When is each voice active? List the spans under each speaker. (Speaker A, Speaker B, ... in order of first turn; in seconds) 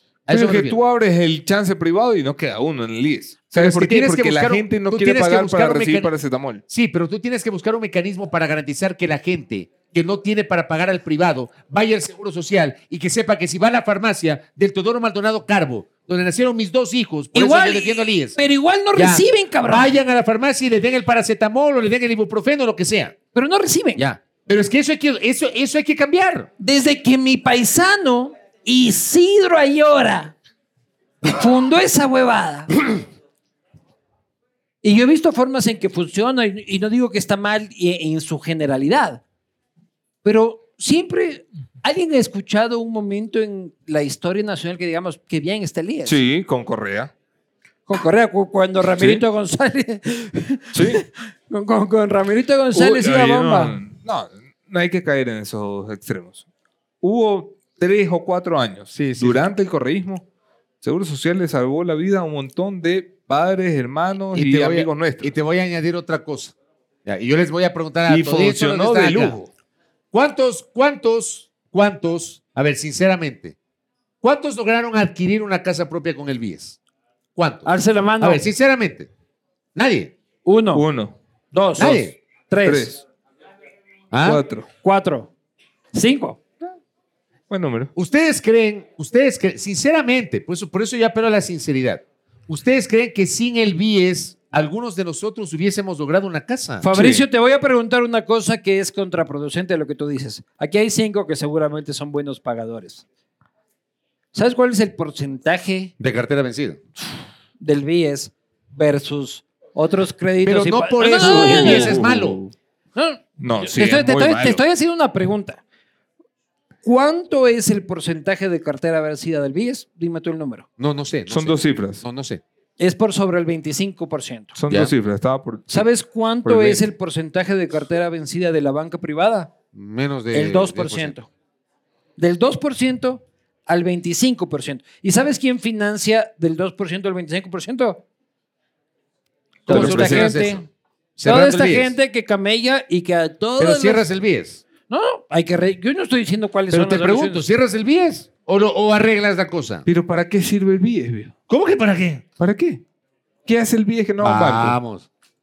Speaker A: 0.3-0.8, 3.5-6.1, 6.7-18.4, 18.9-23.1, 24.0-26.5, 58.9-59.5, 64.3-69.4, 70.1-73.5, 74.2-76.8, 77.3-79.1, 79.7-80.1, 81.8-82.2, 84.1-84.4, 87.9-96.9, 106.0-106.8, 110.4-112.4, 120.8-122.4, 129.7-131.1, 139.7-140.6, 141.2-141.9, 143.6-144.6, 146.7-149.8, 151.5-152.2, 154.2-155.1
Speaker B: 0.3-6.6, 46.0-47.1, 49.0-49.2, 50.7-51.0, 52.7-56.4, 57.0-60.2, 60.8-65.3, 68.1-69.5, 80.7-81.2, 82.6-83.0, 84.2-84.7, 87.5-87.9, 96.9-97.2, 111.0-112.5, 113.4-114.6, 121.3-122.0, 124.5-125.9, 126.4-126.8, 139.7-140.3, 149.8-151.3, 152.4-152.8, 153.4-154.8
Speaker C: 17.3-19.9, 23.3-24.0, 26.6-30.3, 31.2-32.7, 34.8-39.2, 40.2-46.2, 47.9-53.8, 77.7-78.4, 80.4-80.8, 81.5-83.0, 84.8-85.3, 85.9-86.4, 96.8-103.0, 104.3-105.9, 107.6-112.0, 112.9-115.6, 116.8-120.7, 122.8-124.5, 125.7-129.5, 130.3-131.3, 132.2-138.0, 139.7-140.7, 141.2-144.1, 144.9-147.4